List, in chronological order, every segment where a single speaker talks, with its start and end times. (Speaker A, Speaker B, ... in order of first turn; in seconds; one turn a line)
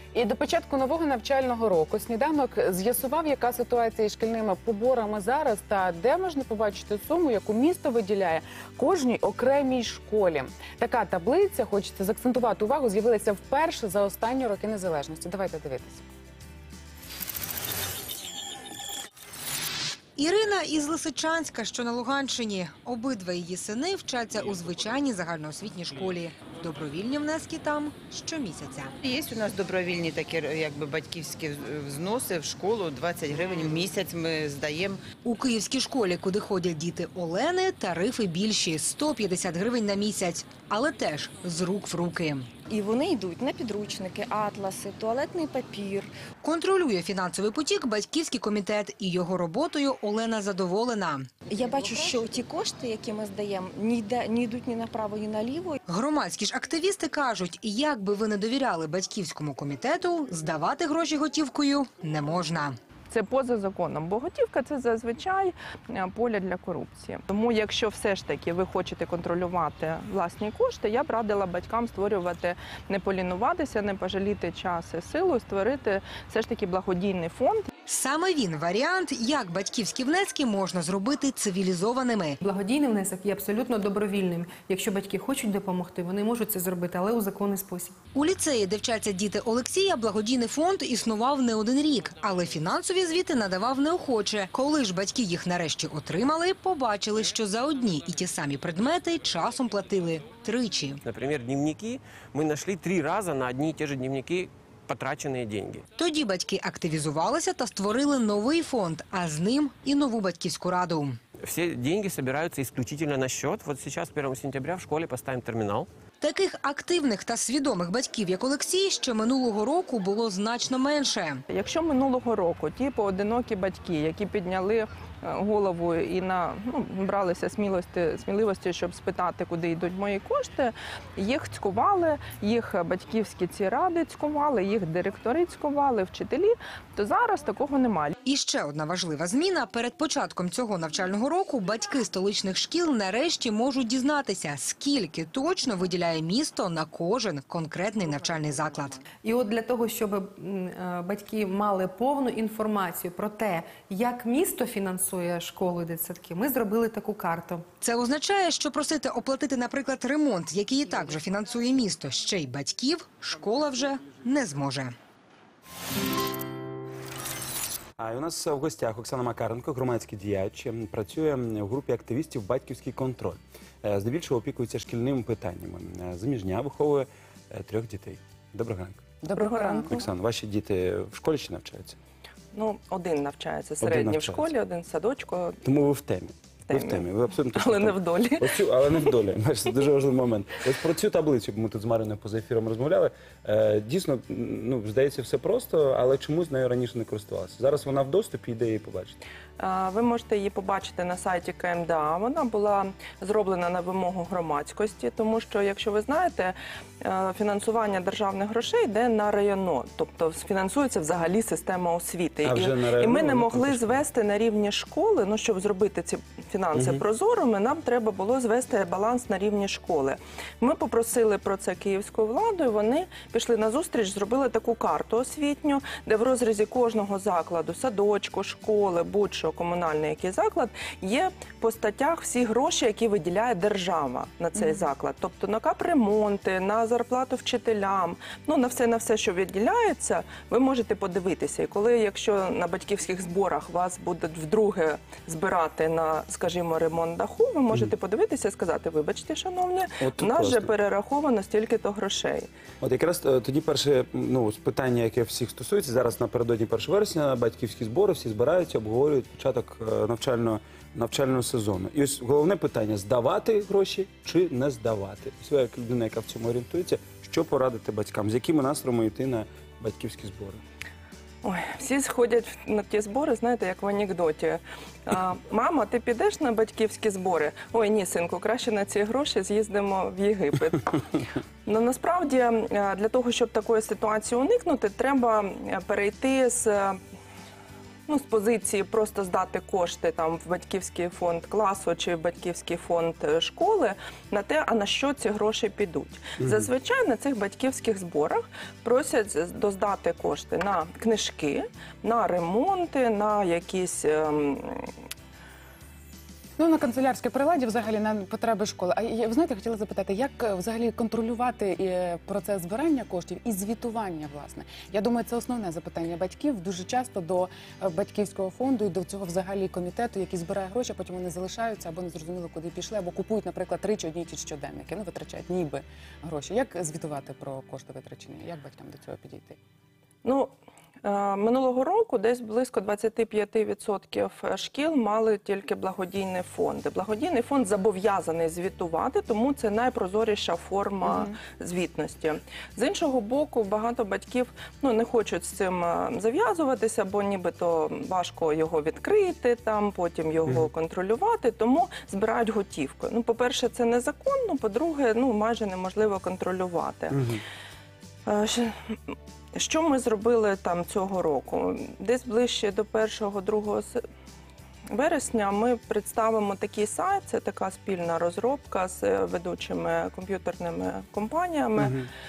Speaker A: 0.1-16.0
Speaker B: 20.2-28.9
Speaker C: 29.0-35.0
Speaker B: 35.2-42.5
Speaker D: 42.7-46.1
Speaker B: 46.4-51.3
Speaker D: 51.5-55.8
Speaker B: 55.9-62.8
Speaker E: 63.1-77.7
Speaker B: 77.8-82.4
Speaker F: 82.4-88.0
Speaker B: 88.1-101.0
Speaker G: 101.0-105.8
Speaker B: 106.0-111.2
Speaker G: 111.4-115.9
Speaker B: 116.2-121.4
Speaker E: 121.5-138.1
Speaker B: 138.2-149.0
Speaker F: 149.2-157.7
Speaker B: 157.8-164.9
Speaker H: 168.0-179.0
Speaker A: 179.2-180.0
Speaker E: 179.3-180.0
Speaker H: 179.8-182.0
Speaker E: 182.5-185.6
Speaker H: 183.8-184.5
Speaker H: 185.6-199.2
Speaker E: 186.7-188.9
Speaker E: 199.6-252.5
Speaker H: 212.4-214.0
Speaker H: 250.0-250.7
Speaker H: 252.8-270.6
Speaker E: 271.4-281.0
Speaker E: 281.6-287.0
Speaker E: 288.1-304.9
Speaker H: 296.4-296.6
Speaker A: 306.6-329.6
Speaker E: 330.2-330.5
Speaker E: 331.0-357.2
Speaker H: 357.1-357.4
Speaker E: 358.2-364.0
Speaker E: 364.9-371.9
Speaker H: 371.8-372.1